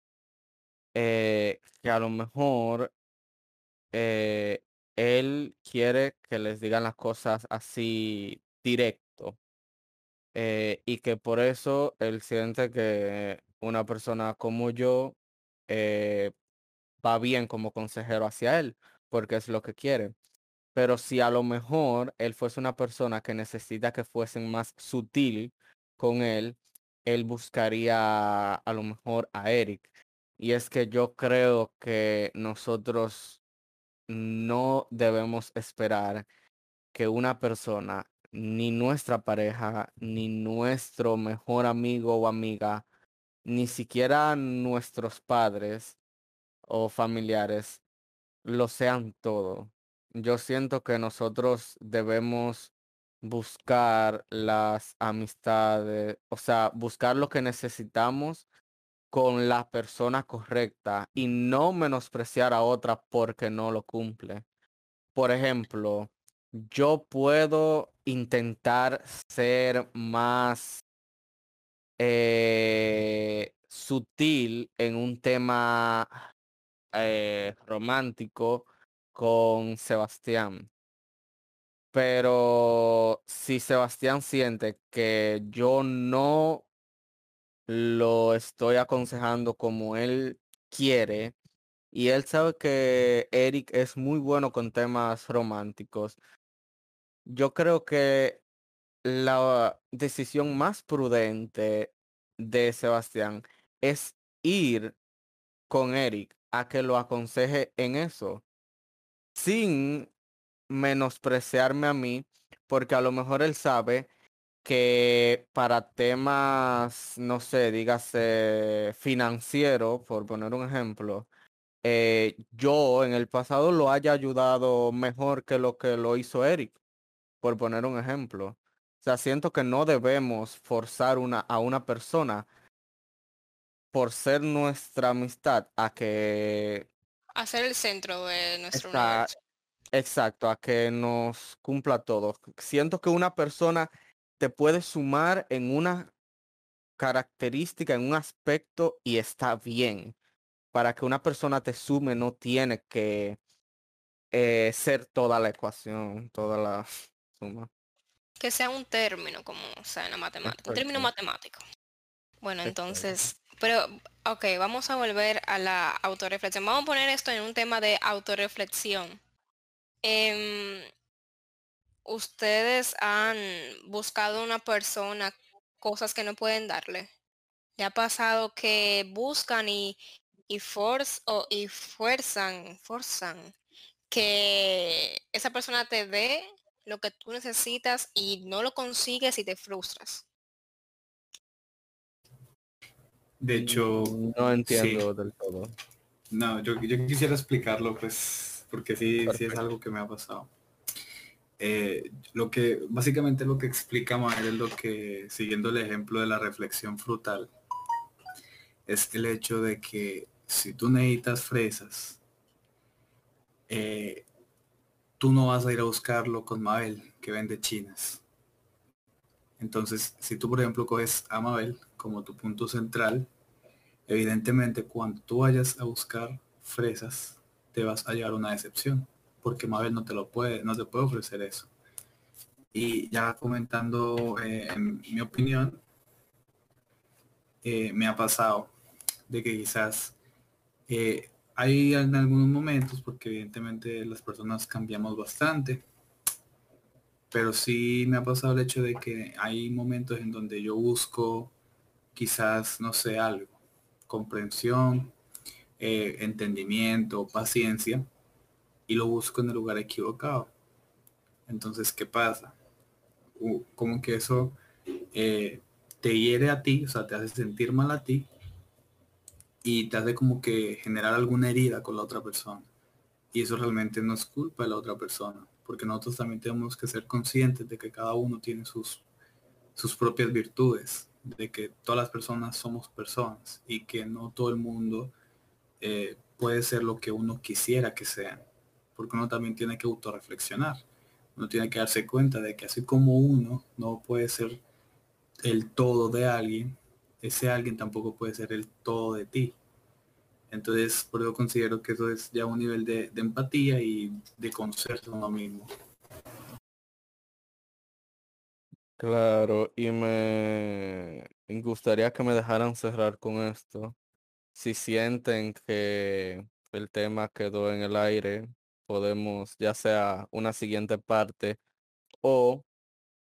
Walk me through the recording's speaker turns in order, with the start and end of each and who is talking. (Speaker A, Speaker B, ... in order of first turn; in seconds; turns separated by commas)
Speaker A: 0.9-2.9, Speaker A: 3.9-9.4, Speaker A: 10.3-16.3, Speaker A: 17.0-20.1, Speaker A: 20.8-29.9, Speaker A: 30.4-33.4, Speaker A: 34.1-36.3, Speaker A: 36.9-42.9, Speaker A: 43.5-46.0, Speaker A: 46.6-47.8, Speaker A: 48.5-58.5, Speaker A: 59.1-64.5, Speaker A: 65.2-70.8, Speaker A: 72.0-76.2, Speaker A: 76.9-80.7, Speaker A: 81.9-86.7, Speaker A: 87.7-91.3, Speaker A: 91.9-96.2, Speaker A: 97.3-98.4, Speaker A: 99.0-105.0, Speaker A: 105.7-108.4, Speaker A: 109.4-110.1, Speaker A: 110.7-114.1, Speaker A: 114.7-121.3, Speaker A: 121.8-126.8, Speaker A: 127.4-132.5, Speaker A: 133.9-136.9, Speaker B: 137.4-139.4, Speaker A: 138.7-139.3, Speaker A: 139.9-146.1, Speaker A: 147.0-150.2, Speaker A: 150.7-153.4, Speaker A: 154.3-157.7, Speaker B: 158.4-161.6, Speaker A: 160.4-161.1, Speaker B: 162.4-169.2, Speaker A: 162.6-163.2, Speaker B: 170.0-170.9, Speaker B: 172.1-177.1, Speaker B: 177.8-183.6, Speaker B: 184.1-190.3, Speaker C: 193.4-194.2, Speaker A: 193.5-195.8, Speaker C: 194.7-195.1, Speaker C: 196.3-200.5, Speaker A: 199.3-199.6, Speaker C: 201.6-207.5, Speaker C: 208.9-212.2, Speaker C: 213.7-214.3, Speaker C: 215.2-218.2, Speaker C: 219.6-223.3, Speaker C: 224.1-231.7, Speaker C: 232.7-235.8, Speaker C: 237.6-238.7, Speaker C: 239.3-240.2, Speaker C: 240.9-245.9, Speaker C: 247.3-251.5, Speaker C: 252.2-253.6, Speaker C: 254.1-255.1, Speaker C: 255.8-258.1, Speaker C: 258.9-260.5, Speaker C: 261.5-262.6, Speaker C: 263.4-264.6, Speaker C: 265.1-268.3, Speaker C: 269.6-272.7, Speaker C: 273.3-279.1, Speaker C: 279.8-285.1, Speaker C: 285.8-288.4, Speaker C: 289.0-290.8, Speaker C: 291.4-294.6, Speaker C: 295.4-299.6, Speaker C: 300.5-305.7, Speaker A: 309.0-314.0, Speaker A: 314.6-321.6, Speaker A: 322.2-322.7